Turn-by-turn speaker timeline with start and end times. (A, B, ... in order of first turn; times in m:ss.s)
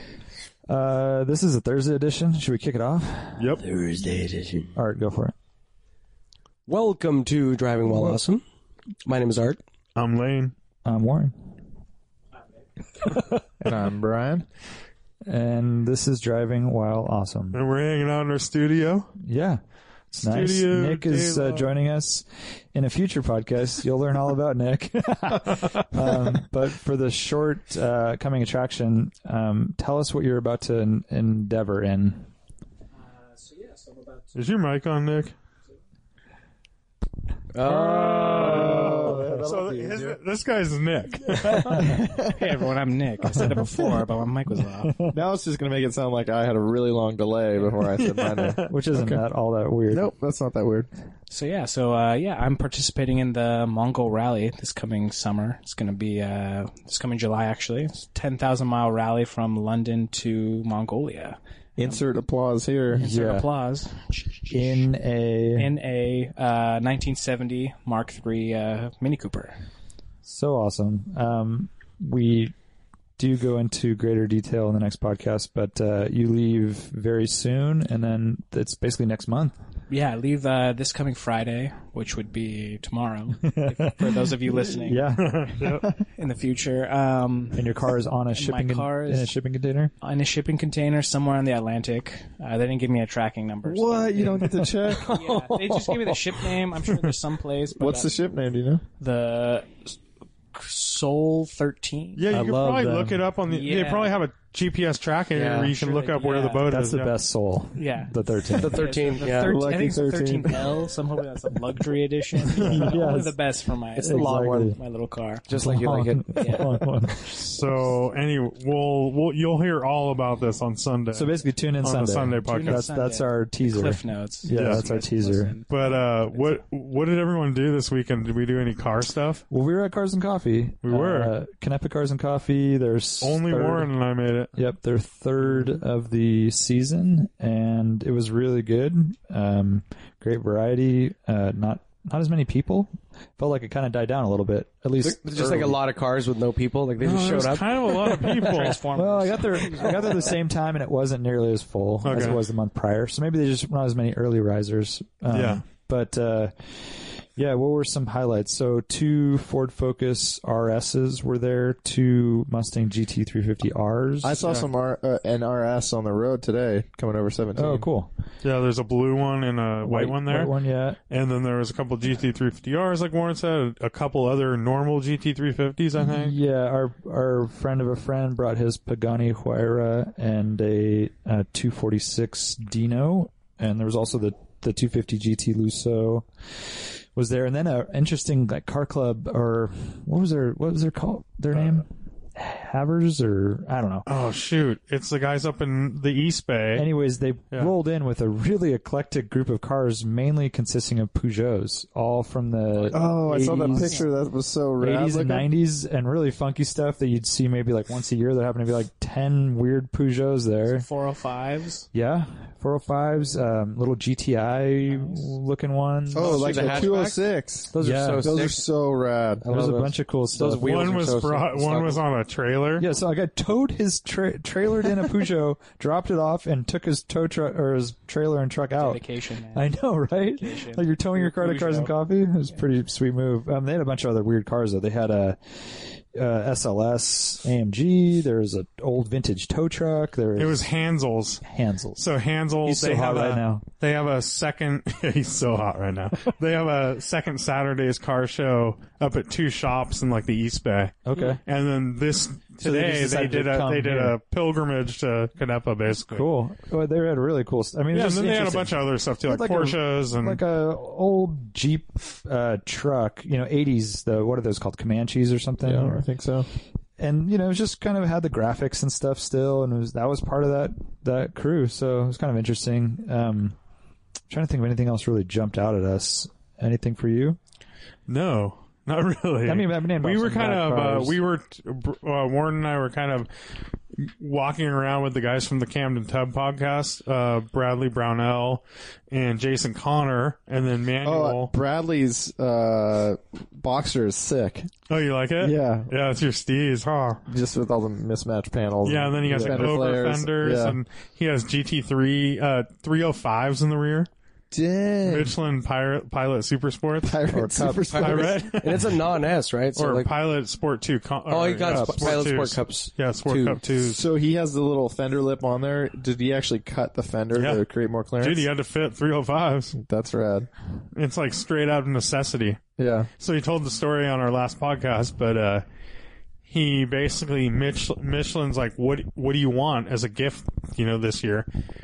0:00.7-0:03.5 A
0:03.6-0:04.7 B
0:04.7-0:05.3 A
0:06.7-0:08.4 B
0:07.9-0:08.2 A
0:09.0-0:09.6 B
0:10.0-0:10.5 C
0:10.8-0:11.3 A
0:13.6-0:14.4 D
0:15.2-0:17.6 A
0:17.5-0:19.1 C
0:19.2-0:19.6 A
0:20.1-0:21.7 C
0:20.2-0:32.3 A
0:33.3-0:34.2 E
0:34.3-0:35.3 C
0:37.5-0:38.9 B
0:37.6-0:42.0 C
0:38.4-0:40.2 D
0:38.4-0:39.5 A
0:41.6-0:45.1 E
0:44.8-0:45.1 A
0:45.1-0:48.6 D
0:48.0-0:49.2 C
0:48.7-0:50.1 A
0:49.9-0:50.9 D
0:51.3-1:02.0 E
1:01.8-1:03.0 D
1:02.9-1:03.5 A
1:03.0-1:04.8 E
1:04.5-1:05.7 A
1:05.6-1:09.5 E
1:10.2-1:12.5 A
1:13.2-1:19.6 A
1:19.9-1:27.7 E
1:23.4-1:25.8 A
1:25.2-1:25.9 C
1:27.5-1:29.9 A
1:28.3-1:29.3 E
1:30.0-1:38.1 E
1:33.6-1:35.1 D
1:34.9-1:36.0 B
1:37.8-1:38.8 D
1:39.0-1:39.9 E
1:40.5-1:42.2 E
1:42.2-1:47.1 C
1:42.3-1:43.2 A
1:43.4-1:44.2 E
1:45.3-1:45.7 B
1:45.6-1:46.7 E
1:46.7-1:48.8 A
1:47.7-1:55.4 E
1:48.5-1:49.6 B
1:49.2-1:50.8 D
1:52.6-1:53.4 A
1:54.0-1:54.8 B
1:54.0-1:54.8 A
1:55.5-1:56.7 B
1:55.5-1:57.4 A
1:56.3-1:56.8 E
1:57.3-2:02.9 C
2:01.1-2:05.5 A
2:02.4-2:06.6 E
2:04.5-2:04.8 C
2:05.7-2:09.4 C
2:09.5-2:13.9 A
2:10.8-2:11.3 C
2:13.2-2:14.5 C
2:14.5-2:25.8 A
2:25.0-2:28.5 B
2:27.0-2:28.8 C
2:28.3-2:30.4 E
2:28.9-2:44.6 A
2:32.0-2:32.4 C
2:35.3-2:35.6 C
2:44.2-2:47.9 D
2:44.4-2:44.7 C
2:47.5-2:48.1 A
2:48.4-2:50.5 C
2:49.8-2:51.0 A
2:51.1-2:56.4 C
2:56.0-3:14.0 A
3:14.0-3:16.8 C
3:16.7-3:24.0 A
3:22.8-3:24.2 E
3:22.9-3:25.5 D
3:24.8-3:30.8 A
3:30.7-3:31.9 E
3:31.9-3:36.9 A
3:34.9-3:35.3 E
3:36.1-3:39.4 D
3:36.2-3:38.6 B
3:37.8-3:38.4 A
3:39.4-3:42.0 B
3:39.5-3:40.7 A
3:40.6-3:42.9 C
3:42.8-3:49.0 A
3:48.8-3:51.9 E
3:49.5-4:00.6 A
4:00.4-4:01.4 C
4:01.4-4:02.0 A
4:02.0-4:16.3 C
4:02.6-4:03.6 A
4:11.0-4:11.4 A
4:12.6-4:14.2 A
4:16.1-4:26.0 A
4:17.9-4:20.4 C
4:25.6-4:26.5 D
4:27.0-4:33.6 A
4:34.3-4:37.4 A
4:38.1-4:43.3 C
4:39.4-4:41.2 A
4:44.0-4:51.5 C
4:51.0-4:54.7 D
4:54.9-4:57.2 C
4:55.4-4:55.9 D
4:57.3-5:00.8 D
4:58.8-5:04.1 C
5:04.5-5:05.3 D
5:05.0-5:07.2 C
5:07.0-5:08.4 D
5:07.3-5:07.9 A
5:07.9-5:10.1 B
5:08.0-5:09.0 C
5:09.8-5:14.0 C
5:11.3-5:13.6 B
5:11.7-5:12.2 D
5:13.7-5:18.5 D
5:17.3-5:17.6 C
5:18.2-5:19.8 C
5:19.8-5:20.5 D
5:20.9-5:22.6 C
5:22.8-5:23.1 D
5:23.2-5:25.6 C
5:26.5-5:31.5 C